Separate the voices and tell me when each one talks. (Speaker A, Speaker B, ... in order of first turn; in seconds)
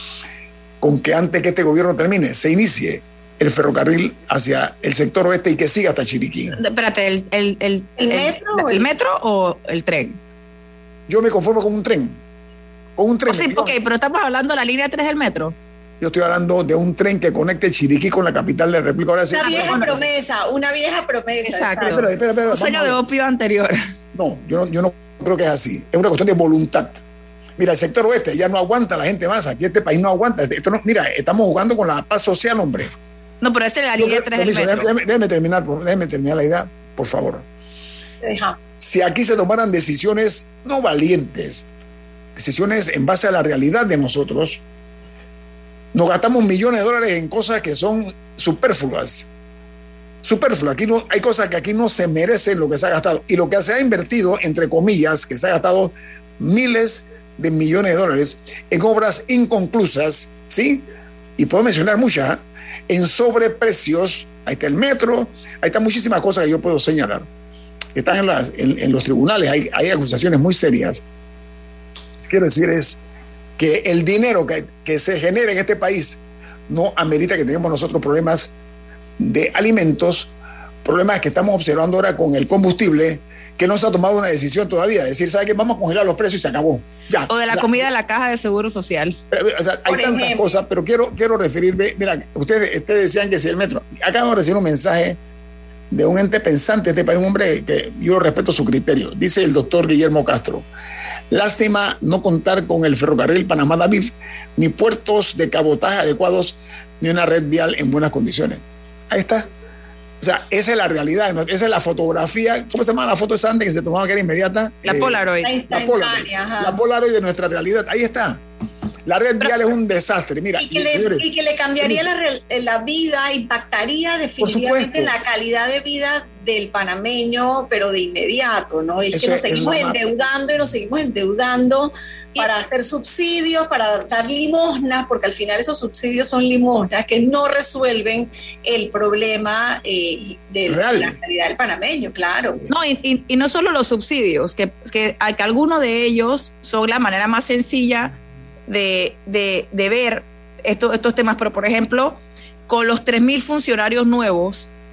Speaker A: 0.8-6.6, 11.1-12.2, 13.0-13.8, 16.0-20.1, 21.9-23.0, 24.1-27.0, 27.6-32.9, 34.0-37.5, 38.8-41.7, 42.4-44.6, 45.9-49.3, 50.2-67.3, 68.0-71.0, 72.3-73.0, 73.6-78.5, 79.2-80.3, 80.8-87.9, 89.3-95.2, 95.9-100.7, 101.3-109.5, 110.2-118.4, 119.1-121.3, 121.8-122.1, 124.4-125.2, 129.1-130.0, 140.7-141.2
Speaker B: 6.5-10.2, 13.3-15.6, 19.3-20.0, 21.4-23.8, 33.4-34.9, 87.3-89.2, 114.8-115.5, 142.7-148.1, 148.7-154.7
Speaker C: 8.0-8.9, 19.3-22.1, 38.2-38.6, 89.9-90.5, 115.4-116.8, 120.6-142.6